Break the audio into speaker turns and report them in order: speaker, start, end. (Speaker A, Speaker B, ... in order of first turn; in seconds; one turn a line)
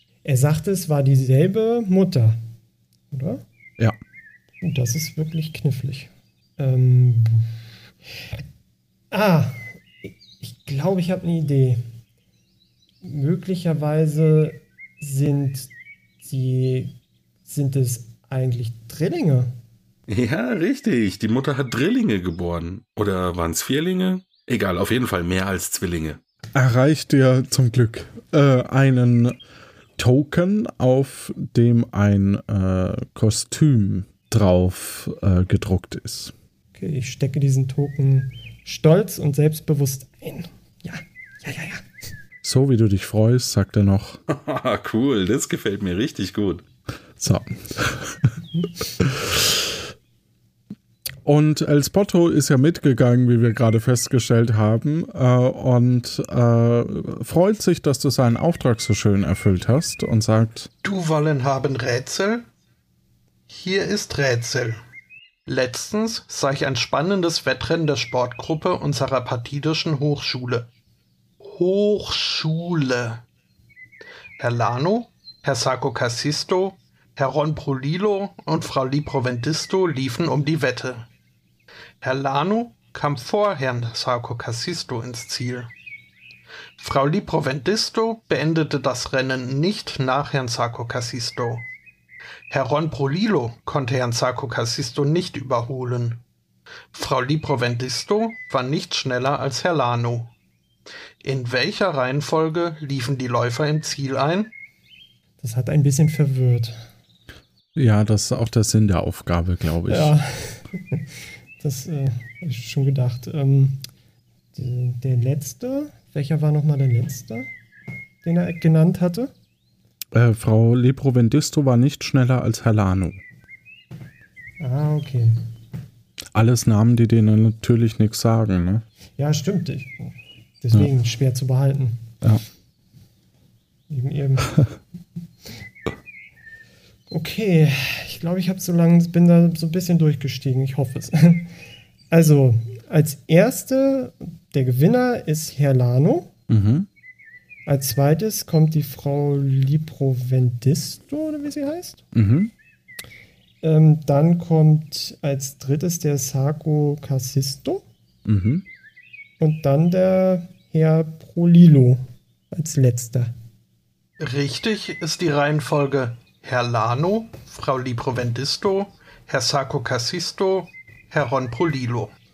Speaker A: 0.2-2.4
Speaker A: 3.1-3.4
Speaker A: 4.6-7.5
Speaker A: 9.1-11.8
Speaker A: 13.0-15.7
Speaker A: 16.2-16.9
Speaker A: 17.5-19.5
Speaker B: 20.1-26.2
Speaker C: 26.5-29.4
Speaker C: 30.0-36.3
Speaker A: 36.7-41.8
Speaker C: 42.4-44.2
Speaker B: 44.3-46.6
Speaker C: 47.2-48.1
Speaker C: 51.2-60.7
Speaker D: 60.8-62.5
Speaker D: 63.5-64.8
Speaker D: 65.5-70.7
Speaker D: 71.4-73.2
Speaker D: 74.4-81.1
Speaker D: 82.0-85.7
Speaker D: 86.8-91.7
Speaker D: 92.5-96.2
Speaker D: 96.9-100.3
Speaker D: 101.2-104.5
Speaker A: 105.4-106.8
Speaker C: 107.7-110.1
Speaker A: 109.9-111.1
Speaker A: 111.6-113.8
Speaker A: 114.5-117.5
Speaker A: 118.2-119.3
Speaker C: 120.1-123.2
Speaker A: 124.6-125.3
Speaker C: 126.3-128.8
Speaker A: 129.2-132.1
Speaker A: 133.9-134.7
Speaker A: 137.1-141.5
Speaker A: 142.1-146.3
Speaker C: 146.5-146.9
Speaker A: 147.7-152.0
Speaker C: 152.1-152.5
Speaker A: 153.6-157.8
Speaker C: 158.2-158.6
Speaker A: 159.4-163.3
Speaker D: 164.2-172.1